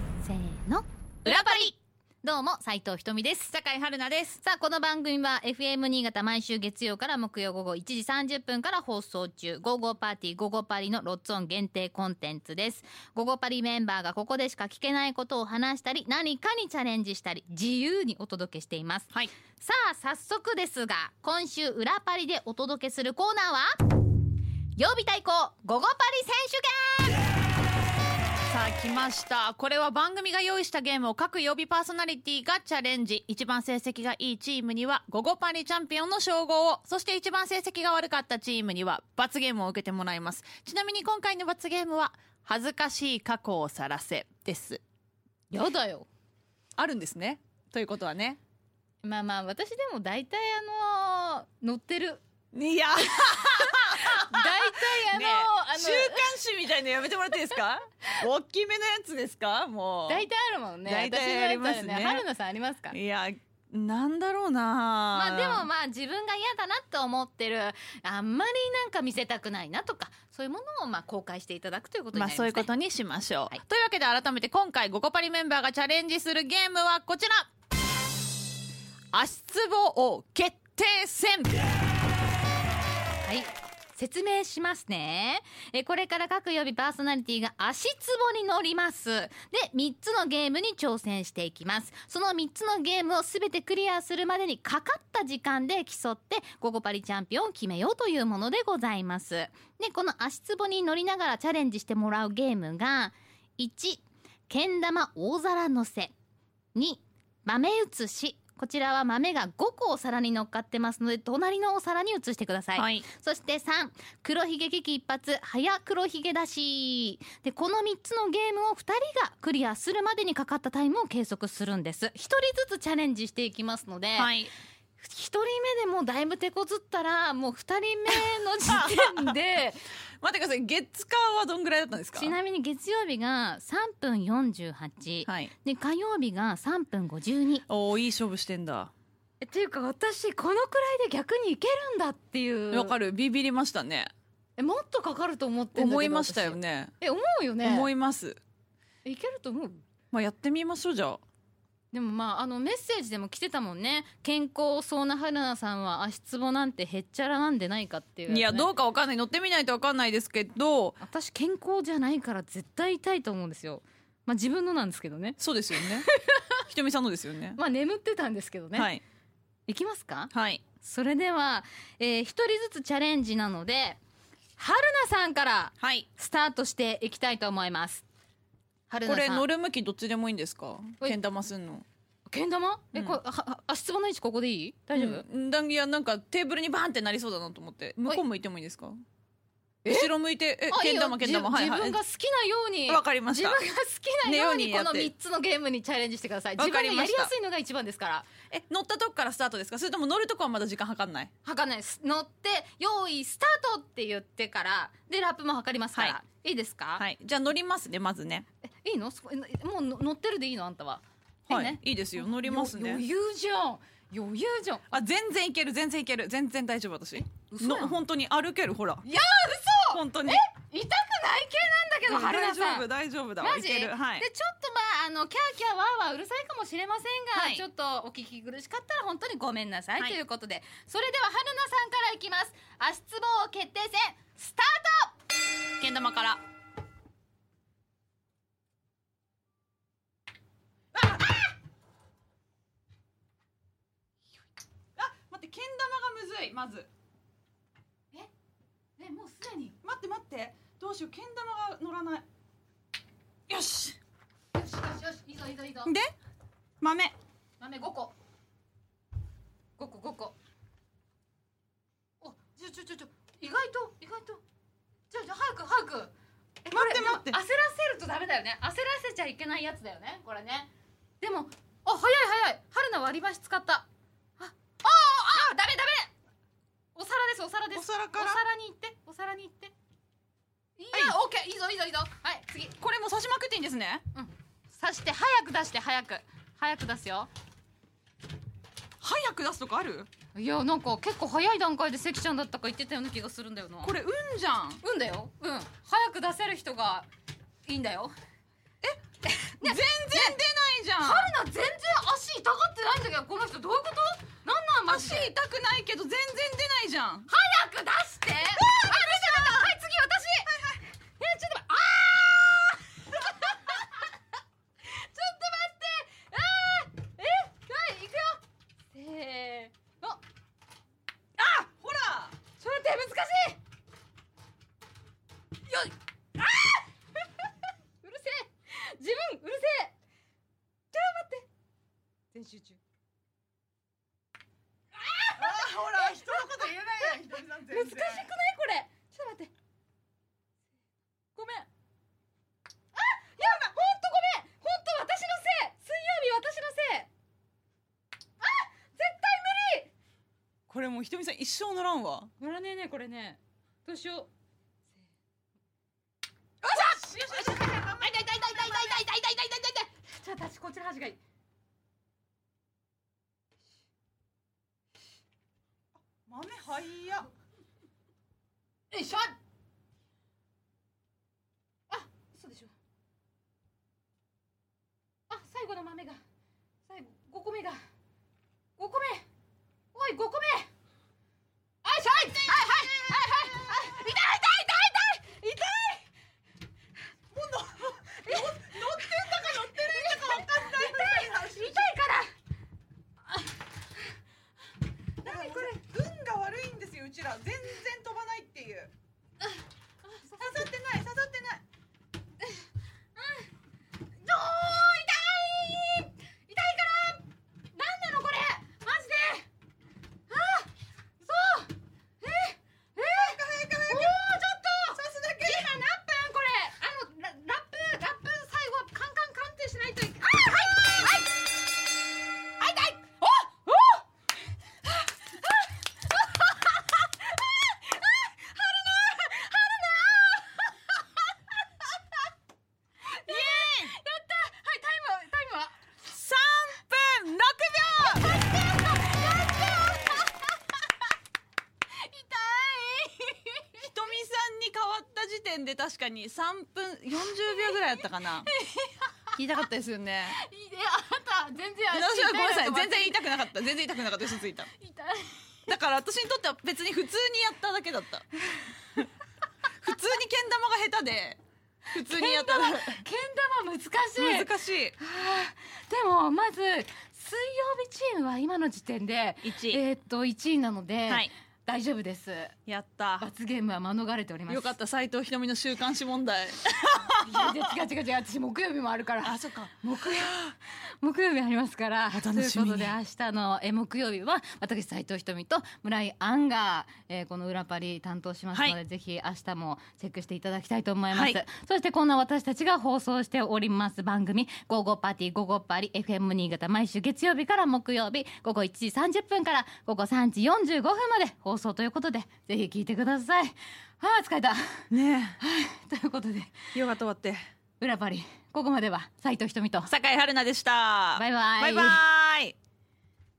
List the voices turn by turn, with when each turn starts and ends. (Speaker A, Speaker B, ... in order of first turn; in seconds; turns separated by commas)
Speaker A: 0.2-3.5, Speaker B: 1.2-1.7, Speaker B: 3.5-4.4, Speaker A: 4.4-23.8, Speaker A: 24.8-27.2, Speaker B: 28.5-44.8, Speaker A: 45.5-46.1, Speaker B: 46.8-48.4, Speaker A: 49.0-52.2, Speaker B: 52.5-60.2, Speaker A: 53.7-56.4, Speaker A: 60.1-63.0, Speaker B: 60.8-62.2, Speaker B: 62.9-65.7, Speaker A: 65.1-72.7, Speaker B: 72.1-77.5, Speaker B: 79.1-81.6, Speaker A: 83.2-106.1, Speaker A: 106.7-124.3, Speaker B: 112.8-113.0, Speaker B: 124.2-124.5, Speaker A: 125.0-129.8, Speaker B: 128.7-129.3, Speaker B: 130.2-132.3, Speaker A: 132.1-137.6, Speaker B: 135.2-135.5, Speaker B: 137.7-138.9, Speaker A: 139.4-142.9, Speaker B: 142.7-144.1, Speaker A: 144.6-147.9, Speaker B: 145.7-146.9, Speaker B: 147.6-148.4, Speaker A: 149.0-149.8, Speaker B: 150.1-151.2, Speaker A: 151.9-158.7, Speaker B: 158.3-161.0, Speaker A: 161.0-166.6, Speaker B: 165.4-166.1, Speaker B: 166.7-167.6, Speaker A: 167.5-168.9, Speaker B: 168.7-169.0, Speaker A: 169.7-174.0, Speaker B: 170.3-170.6, Speaker A: 174.6-178.0, Speaker B: 175.8-176.1, Speaker A: 178.9-179.4, Speaker B: 179.0-181.8, Speaker A: 182.3-185.2, Speaker B: 184.9-189.0, Speaker A: 189.8-190.1, Speaker B: 189.9-192.0, Speaker A: 190.7-198.3, Speaker B: 192.9-193.6, Speaker B: 194.2-195.1, Speaker B: 196.6-197.3, Speaker B: 198.5-201.3, Speaker A: 201.4-207.0, Speaker B: 207.0-208.4, Speaker A: 208.6-214.8, Speaker B: 211.5-213.0, Speaker B: 214.9-219.1, Speaker A: 217.4-218.0, Speaker A: 219.0-222.9, Speaker B: 219.9-220.4, Speaker B: 222.1-224.2, Speaker A: 223.4-235.2, Speaker B: 227.3-227.6, Speaker B: 235.8-236.4, Speaker B: 241.0-241.2, Speaker B: 244.9-246.9, Speaker A: 249.0-249.8, Speaker B: 249.8-252.2, Speaker B: 253.5-254.0, Speaker A: 254.5-255.9, Speaker B: 255.8-256.1, Speaker B: 256.8-257.1, Speaker A: 257.6-258.1, Speaker A: 259.8-260.4, Speaker A: 262.2-264.4, Speaker A: 265.1-266.1, Speaker A: 266.6-273.9, Speaker B: 266.7-267.4, Speaker A: 274.4-276.1, Speaker A: 276.9-279.7, Speaker B: 277.7-278.4, Speaker A: 280.8-282.7, Speaker B: 282.8-284.0, Speaker A: 284.1-287.3, Speaker B: 289.0-290.1, Speaker A: 290.3-293.9, Speaker B: 293.8-294.8, Speaker A: 294.8-297.1, Speaker A: 297.6-298.1, Speaker A: 299.2-300.4, Speaker B: 299.6-301.3, Speaker A: 301.0-305.3, Speaker B: 304.9-307.3, Speaker A: 307.3-314.2, Speaker B: 308.6-309.7, Speaker B: 310.5-310.8, Speaker A: 314.8-318.4, Speaker A: 318.9-320.2, Speaker B: 321.4-322.4, Speaker A: 322.6-323.6, Speaker A: 325.7-327.5, Speaker A: 328.0-329.9, Speaker A: 330.9-331.5, Speaker A: 332.3-332.8, Speaker A: 334.9-337.1, Speaker B: 335.3-338.3, Speaker A: 337.7-339.5, Speaker A: 341.3-341.7, Speaker A: 342.9-347.1, Speaker A: 348.4-349.9, Speaker B: 350.7-352.3, Speaker A: 352.4-354.3, Speaker B: 356.6-359.0, Speaker A: 356.7-361.2, Speaker B: 366.2-367.3, Speaker A: 368.9-369.4, Speaker A: 371.9-372.7, Speaker A: 375.3-376.2, Speaker A: 376.9-377.8, Speaker A: 378.8-379.2, Speaker A: 379.9-380.7, Speaker A: 381.8-386.1, Speaker B: 382.4-383.2, Speaker B: 387.3-391.9, Speaker A: 388.1-392.3, Speaker A: 395.2-395.8, Speaker B: 395.2-398.9, Speaker A: 400.1-400.7, Speaker B: 400.4-401.6, Speaker A: 403.1-403.5, Speaker A: 404.2-409.5, Speaker A: 410.3-421.3, Speaker B: 413.0-414.2, Speaker B: 414.9-415.7, Speaker A: 422.6-424.0, Speaker A: 425.3-431.5, Speaker A: 433.0-435.9, Speaker B: 433.2-433.9, Speaker B: 436.1-438.3, Speaker A: 437.8-440.9, Speaker A: 441.9-443.9, Speaker B: 443.8-448.5, Speaker A: 447.4-449.3, Speaker B: 449.3-450.4, Speaker A: 450.3-453.2, Speaker B: 451.9-454.7, Speaker A: 454.7-455.7, Speaker B: 455.7-458.3, Speaker B: 459.8-461.4, Speaker B: 461.9-463.0, Speaker A: 461.9-472.5, Speaker B: 464.2-464.9, Speaker B: 469.4-469.8, Speaker B: 472.7-473.3, Speaker A: 473.2-474.7, Speaker B: 474.5-477.3, Speaker A: 477.1-504.8, Speaker B: 479.2-480.4, Speaker B: 482.1-482.9, Speaker B: 491.1-491.4, Speaker B: 504.9-505.4, Speaker A: 505.4-506.7, Speaker B: 506.7-507.4, Speaker A: 507.8-509.9, Speaker B: 509.9-512.5, Speaker A: 511.1-512.0